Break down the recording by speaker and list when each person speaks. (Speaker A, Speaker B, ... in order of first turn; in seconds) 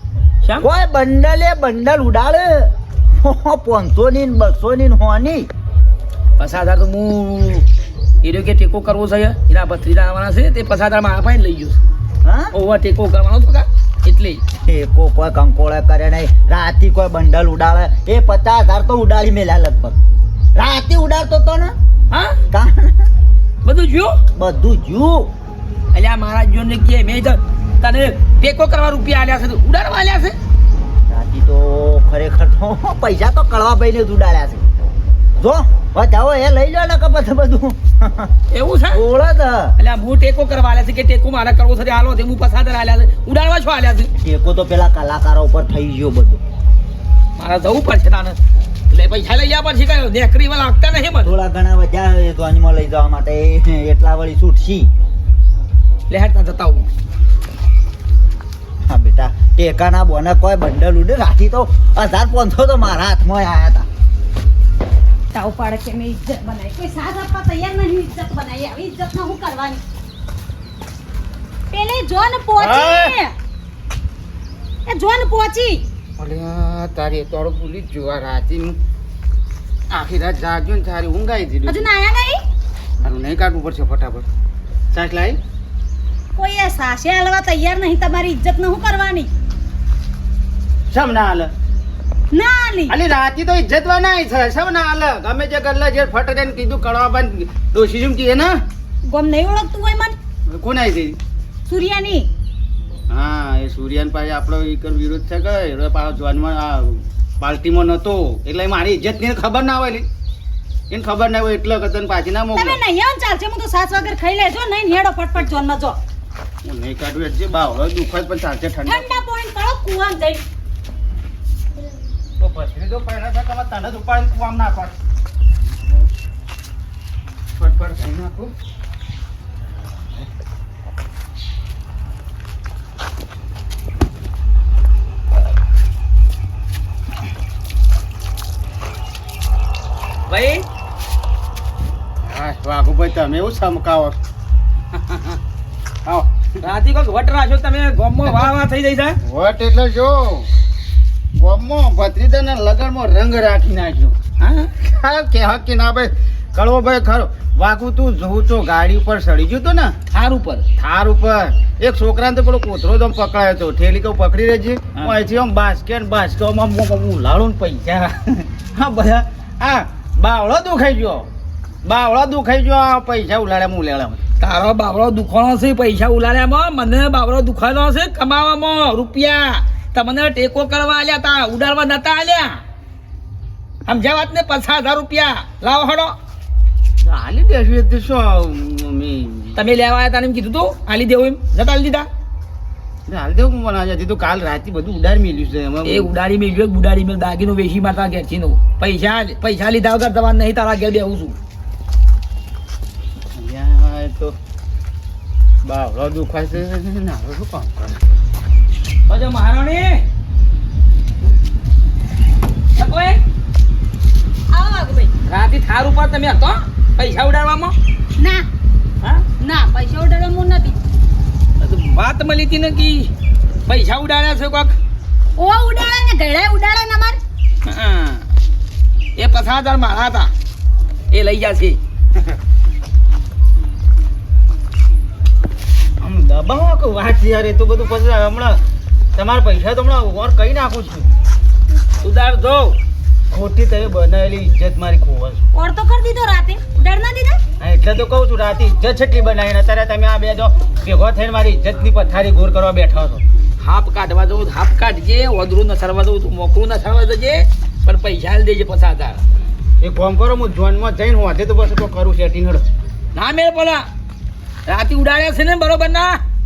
Speaker A: 0.6-5.5, 12.2-12.5, 14.6-19.9, 20.5-21.7, 22.5-23.1, 24.3-25.3, 31.1-34.6, 35.4-38.3, 38.9-39.8, 44.1-46.4, 51.2-54.9, 58.9-63.9
Speaker B: 6.4-7.7, 8.2-11.8, 12.5-14.4, 22.1-22.4, 23.6-24.2, 25.9-30.4, 38.5-39.0, 39.8-44.1, 47.4-48.4, 48.9-51.3, 56.1-56.9, 140.3-140.6, 146.6-149.2, 154.4-154.8, 160.1-160.7, 174.4-182.6, 183.8-186.2, 189.6-192.1, 195.8-201.4, 209.1-210.0, 212.8-213.2, 215.2-217.7, 221.6-223.1, 223.7-224.8, 227.6-228.2, 229.2-230.3, 231.1-231.8, 242.0-242.8, 253.6-259.2, 263.1-263.9, 264.7-266.2
Speaker C: 65.3-69.8, 71.7-73.3, 74.9-75.8, 81.7-82.4, 86.3-89.3, 92.3-93.0, 99.1-100.1, 101.7-102.3, 112.5-116.0, 118.8-120.4, 214.5-215.1, 218.2-218.5, 219.4-220.8, 225.4-227.2, 245.5-247.4
Speaker D: 72.6-73.1, 76.2-78.7, 79.9-81.8, 83.0-84.2, 84.9-85.4, 90.9-91.5, 92.9-98.5, 100.5-101.2, 103.1-106.8, 107.4-110.0, 110.9-112.8, 116.6-119.2, 122.4-124.9, 127.6-128.5, 142.2-144.1, 149.3-150.3, 151.4-154.1, 154.8-159.9, 160.8-171.2, 171.8-174.2, 187.0-189.5, 193.1-196.0, 203.4-204.3, 205.6-207.9, 236.0-238.5, 239.2-241.1, 243.3-245.4, 247.6-253.2, 259.8-262.6